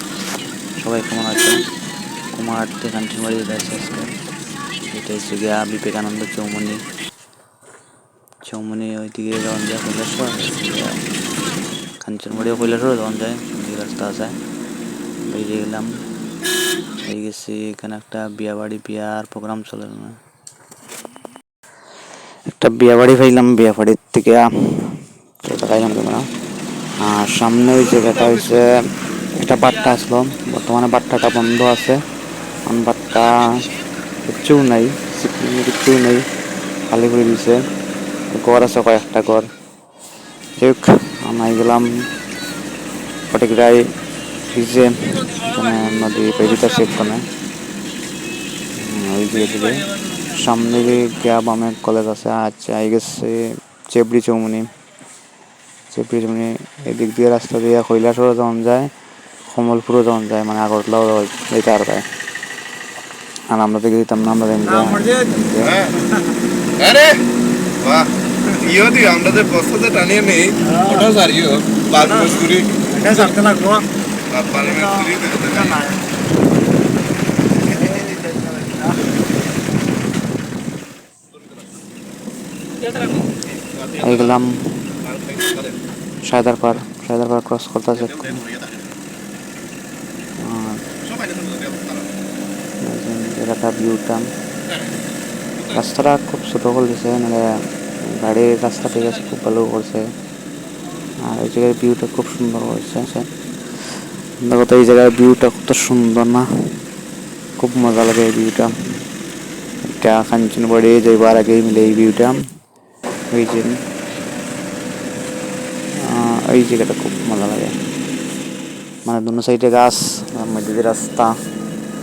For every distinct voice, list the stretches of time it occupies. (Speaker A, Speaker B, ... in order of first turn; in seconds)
Speaker A: 0.8-1.6, 2.3-4.2, 4.8-6.9, 8.5-11.0, 12.0-14.4, 15.2-16.0, 17.1-20.2, 22.5-26.3, 27.0-28.7, 29.4-32.0, 32.7-33.7, 34.2-36.2, 36.9-37.6, 38.3-39.5, 40.6-41.9, 43.3-43.8, 44.5-47.2, 48.8-54.7, 55.9-58.9, 59.5-62.1, 63.5-65.9, 84.0-84.9, 86.2-88.5, 90.4-90.8, 92.8-94.3, 95.7-97.5, 98.0-100.1, 101.2-103.3, 104.4-106.5, 107.6-108.7, 109.8-112.4, 113.3-113.8, 116.0-117.7, 119.1-121.4
Speaker B: 64.9-65.3, 70.7-71.0, 72.9-73.9, 74.6-76.0, 77.8-78.6
Speaker C: 66.8-67.2, 67.8-72.9, 74.3-75.8, 85.2-85.7, 91.0-92.0